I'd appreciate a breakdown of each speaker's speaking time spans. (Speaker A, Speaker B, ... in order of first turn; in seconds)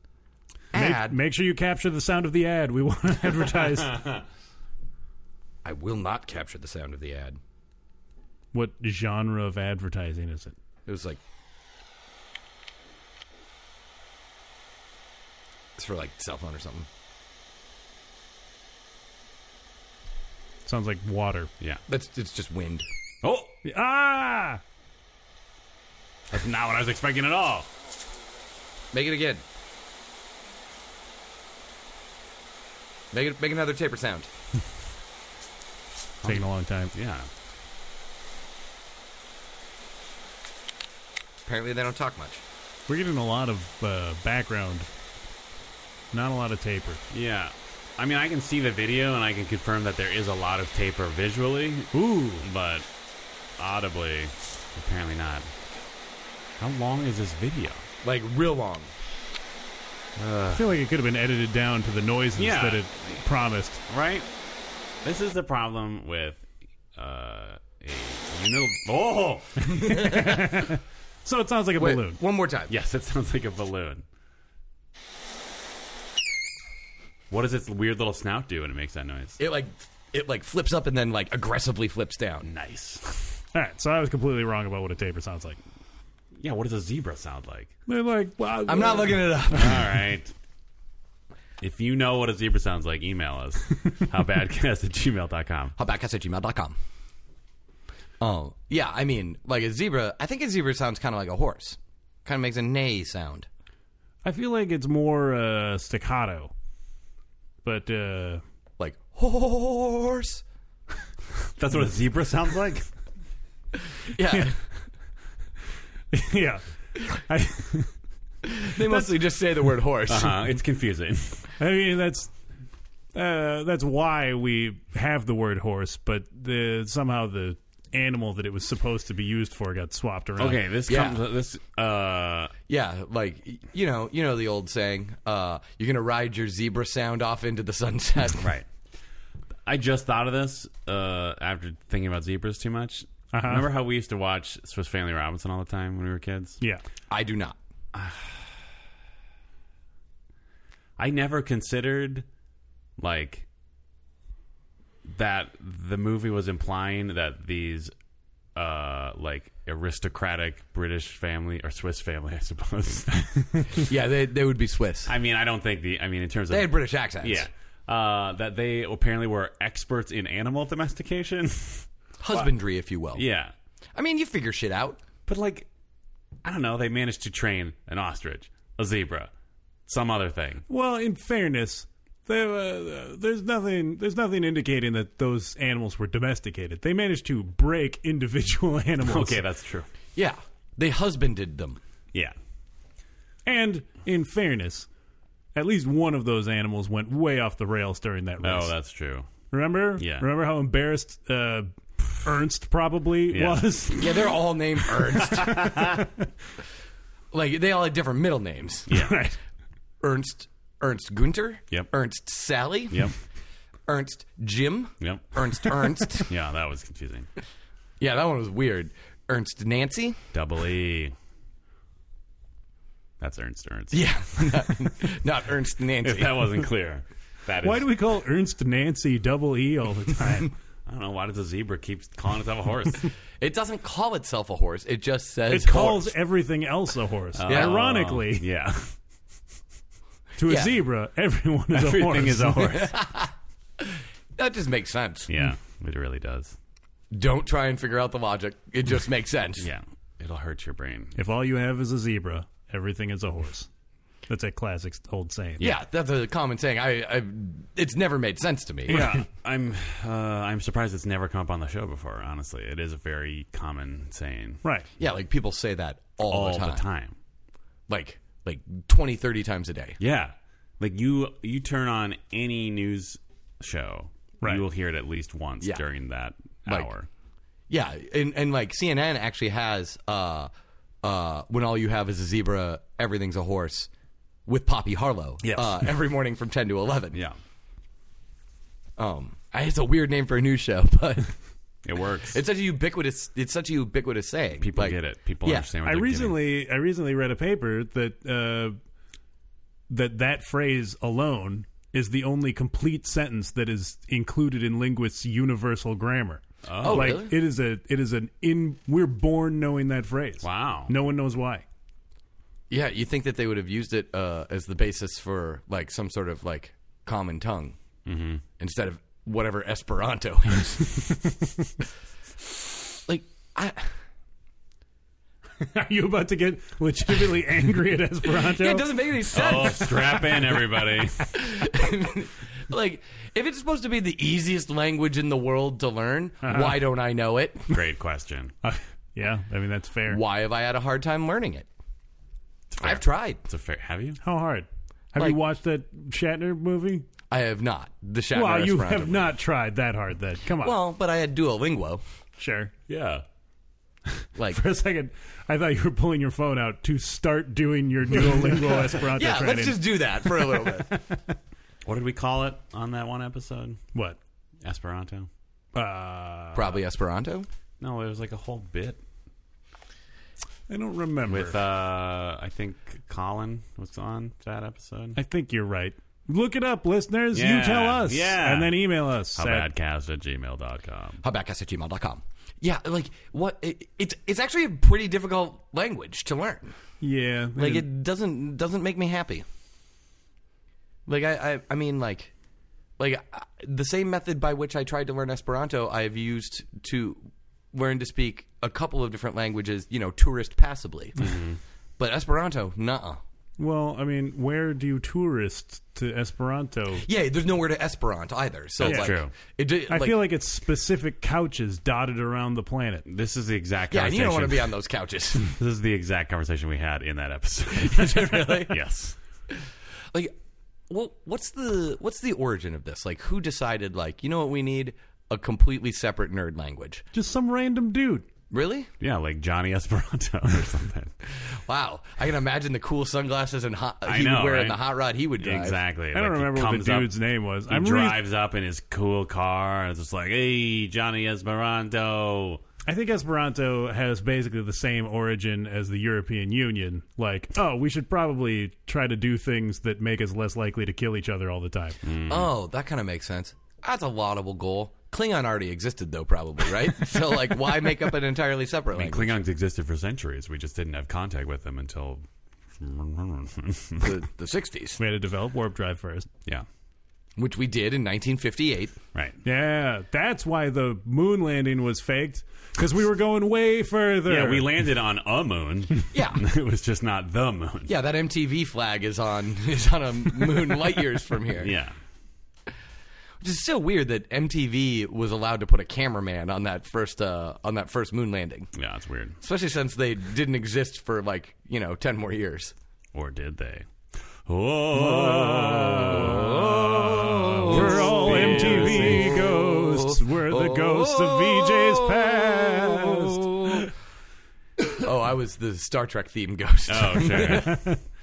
Speaker A: 0.7-1.2, 5.6-7.4, 10.9-11.2, 15.8-16.9, 21.9-22.9, 28.9-29.4, 33.1-34.3, 41.5-42.4, 58.0-58.9, 69.8-70.5, 71.8-72.7, 79.4-82.5, 88.7-90.0, 95.8-96.8, 98.2-103.5, 108.8-110.4, 114.0-114.6, 118.5-120.5, 130.9-131.2, 132.7-138.5, 147.1-147.6, 163.8-165.1, 166.5-167.5, 172.2-173.2, 173.9-175.0, 190.2-191.8, 204.0-205.9, 207.3-209.0, 210.0-213.1, 213.9-216.3, 218.0-220.2, 223.9-226.4, 233.4-236.1, 237.5-237.8, 240.4-240.8, 242.8-245.3, 247.1-249.7, 255.6-259.2, 265.0-266.8, 267.9-270.0, 277.7-280.5, 281.0-283.9, 284.5-287.2, 289.0-291.4, 292.3-295.7, 306.8-307.3, 312.7-317.8, 318.6-321.0, 323.1-323.9, 328.3-330.3, 331.3-337.7, 340.1-341.7, 342.8-343.4, 347.3-349.2, 350.6-352.0, 358.2-361.0, 366.5-367.5, 381.2-386.8, 387.6-389.4, 391.1-392.3, 393.0-397.2, 397.7-401.2, 402.0-403.2, 407.0-410.3, 413.9-415.5, 417.8-418.8, 420.9-427.0, 428.5-428.9, 431.4-435.8, 452.3-459.4, 464.0-465.0, 467.4-469.0, 476.1-476.4, 477.9-481.7, 483.4-488.7, 489.4-492.7, 496.0-503.9, 504.8-507.9
Speaker B: 0.7-4.2, 8.5-10.6, 20.6-21.5, 23.6-24.6, 36.2-36.9, 42.9-44.9, 46.1-47.0, 51.9-52.5, 60.5-63.8, 69.8-72.2, 83.5-85.6, 87.9-89.8, 104.2-106.5, 107.6-108.4, 116.1-117.9, 118.6-119.1, 121.6-122.3, 123.1-130.6, 143.3-143.7, 180.7-189.4, 193.5-194.9, 195.6-198.7, 199.5-201.7, 202.2-204.4, 205.1-206.0, 208.9-209.3, 227.6-230.5, 235.5-238.4, 240.4-242.9, 251.2-253.7, 254.3-255.7, 295.8-298.8, 299.9-311.6, 325.6-329.0, 336.4-336.8, 338.6-340.2, 344.2-347.1, 348.3-350.8, 352.4-352.7, 354.5-361.2, 365.8-366.7, 370.7-371.6, 375.2-379.7, 387.0-387.9, 403.6-407.1, 408.8-409.1, 409.9-413.1, 427.1-428.3, 436.1-438.2, 442.9-452.0, 465.0-466.3, 469.4-474.7, 494.9-496.8, 497.4-503.9
Speaker C: 23.2-23.6, 26.3-27.7, 36.9-37.3, 47.1-52.9, 53.6-55.5, 56.6-57.9, 60.2-60.7, 62.4-63.2, 63.9-64.3, 65.0-66.5, 67.0-70.1, 72.7-74.0, 77.3-79.4, 82.4-83.4, 86.4-87.7, 89.5-90.3, 91.6-95.8, 111.6-112.9, 120.1-121.5, 130.4-132.5, 138.4-138.7, 139.7-146.6, 147.9-148.4, 151.0-152.3, 153.0-153.5, 155.1-157.9, 158.6-163.8, 165.1-171.9, 173.2-173.5, 175.3-175.7, 176.4-179.3, 179.9-180.6, 189.0-189.9, 198.4-199.3, 200.0-200.3, 203.3-203.7, 205.5-206.0, 208.9-209.2, 215.0-217.3, 220.3-221.2, 223.2-224.6, 226.0-227.9, 230.9-233.1, 237.3-238.9, 241.7-242.9, 245.3-246.6, 249.6-251.2, 258.9-264.6, 266.3-267.1, 270.0-277.1, 285.4-285.8, 291.9-292.4, 294.6-296.4, 306.6-307.2, 310.4-310.9, 318.1-318.4, 329.3-331.3, 337.7-338.5, 342.7-344.2, 352.9-353.2, 361.9-363.8, 364.6-365.3, 367.8-369.0, 371.3-375.2, 377.3-381.2, 401.2-401.6, 408.8-409.3, 413.1-414.7, 415.4-419.2, 429.0-431.1, 434.1-434.8, 435.4-437.1, 437.7-442.6, 452.0-452.5, 458.9-462.2, 462.8-464.2, 474.2-477.9, 481.6-482.0, 488.7-489.4, 493.1-499.4, 506.9-507.8